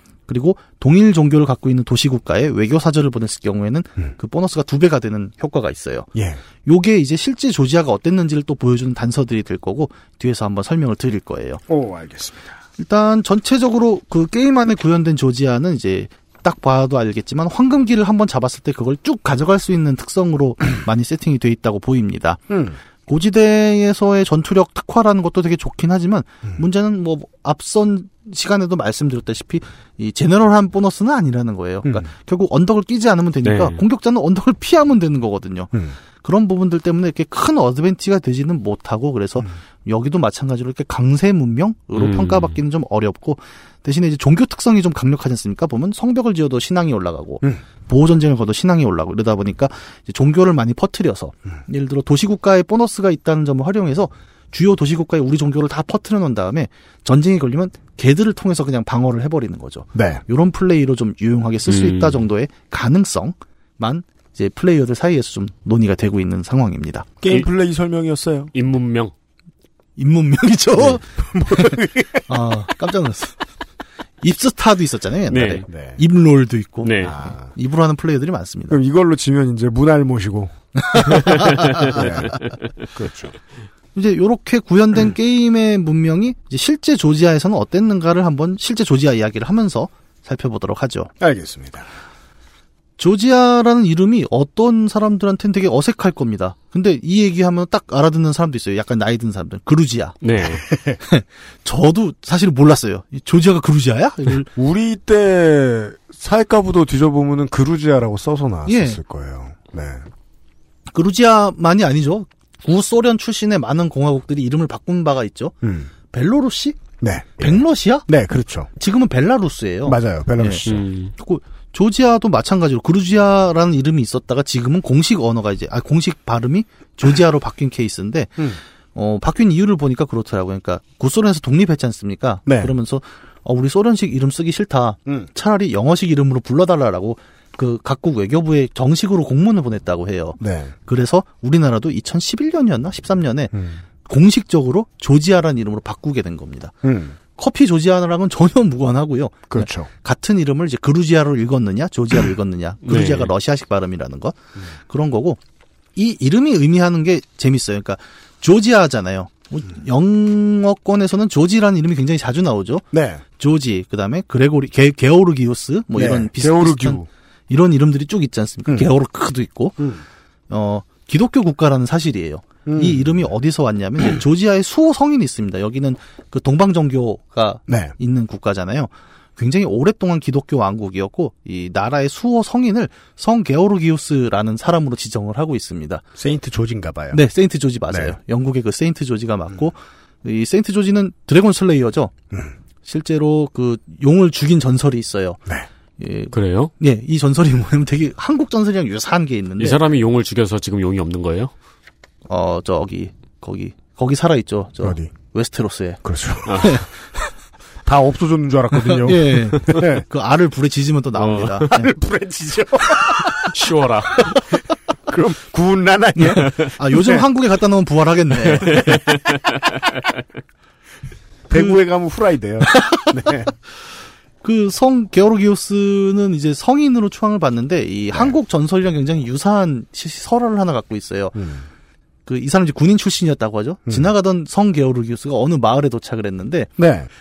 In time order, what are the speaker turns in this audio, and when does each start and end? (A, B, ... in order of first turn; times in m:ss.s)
0:00.3-0:06.1 A
0:06.1-0:06.4 B
0:06.6-0:11.6 A
0:11.7-0:12.6 B
0:12.8-0:22.4 A
0:22.5-0:22.8 B
0:23.0-1:07.1 A
0:33.4-0:33.8 C
0:41.9-0:42.6 C
0:59.9-1:00.2 B
1:01.7-1:02.2 C
1:07.2-1:08.5 B
1:08.5-1:09.1 C
1:10.0-1:13.4 A
1:10.7-1:12.4 B
1:14.2-1:18.8 A
1:15.3-1:15.6 C
1:15.7-1:16.0 B
1:16.8-1:17.1 C
1:17.0-1:17.5 B
1:18.7-1:23.3 B
1:20.9-1:22.0 A
1:21.4-1:22.4 C
1:23.9-1:31.1 A
1:31.2-1:31.9 B
1:33.0-1:40.2 A
1:40.2-1:40.6 C
1:40.4-1:41.0 B
1:41.0-1:44.5 A
1:44.5-1:50.0 B
1:48.6-1:49.0 A
1:50.9-1:55.5 A
1:55.6-1:55.9 B
1:56.1-1:56.8 A
1:57.0-1:58.7 B
1:57.4-1:58.1 A
1:58.8-2:08.4 A
1:59.8-2:00.8 B
2:00.7-2:01.1 C
2:08.9-2:23.5 A
2:12.4-2:12.7 B
2:20.4-2:20.7 B
2:23.5-2:23.8 B
2:24.0-2:26.8 A
2:26.8-2:27.2 B
2:27.3-2:35.4 A
2:29.5-2:29.9 B
2:32.8-2:33.3 C
2:36.0-2:42.9 A
2:42.9-2:43.2 B
2:43.4-2:49.8 A
2:45.9-2:47.1 B
2:50.5-3:06.0 A
2:52.6-2:53.2 B
2:57.7-2:57.9 B
3:06.2-3:07.2 B
3:07.1-3:12.1 A
3:07.9-3:08.2 B
3:12.8-3:15.4 A
3:16.0-3:19.8 A
3:16.3-3:16.7 C
3:19.6-3:21.5 C
3:22.3-3:26.0 A
3:24.8-3:25.1 B
3:26.0-3:26.9 B
3:26.5-3:26.7 C
3:26.6-3:27.3 A
3:27.8-3:30.0 B
3:28.7-3:31.9 A
3:31.2-3:31.7 C
3:31.7-3:33.4 B
3:33.5-3:34.4 C
3:35.1-3:37.3 B
3:36.2-3:38.7 A
3:38.6-3:39.4 C
3:38.6-3:39.2 B
3:41.5-3:43.6 B
3:42.6-3:43.1 A
3:44.4-3:51.4 A
3:51.3-3:51.7 B
3:52.2-3:56.7 A
3:56.8-3:57.1 B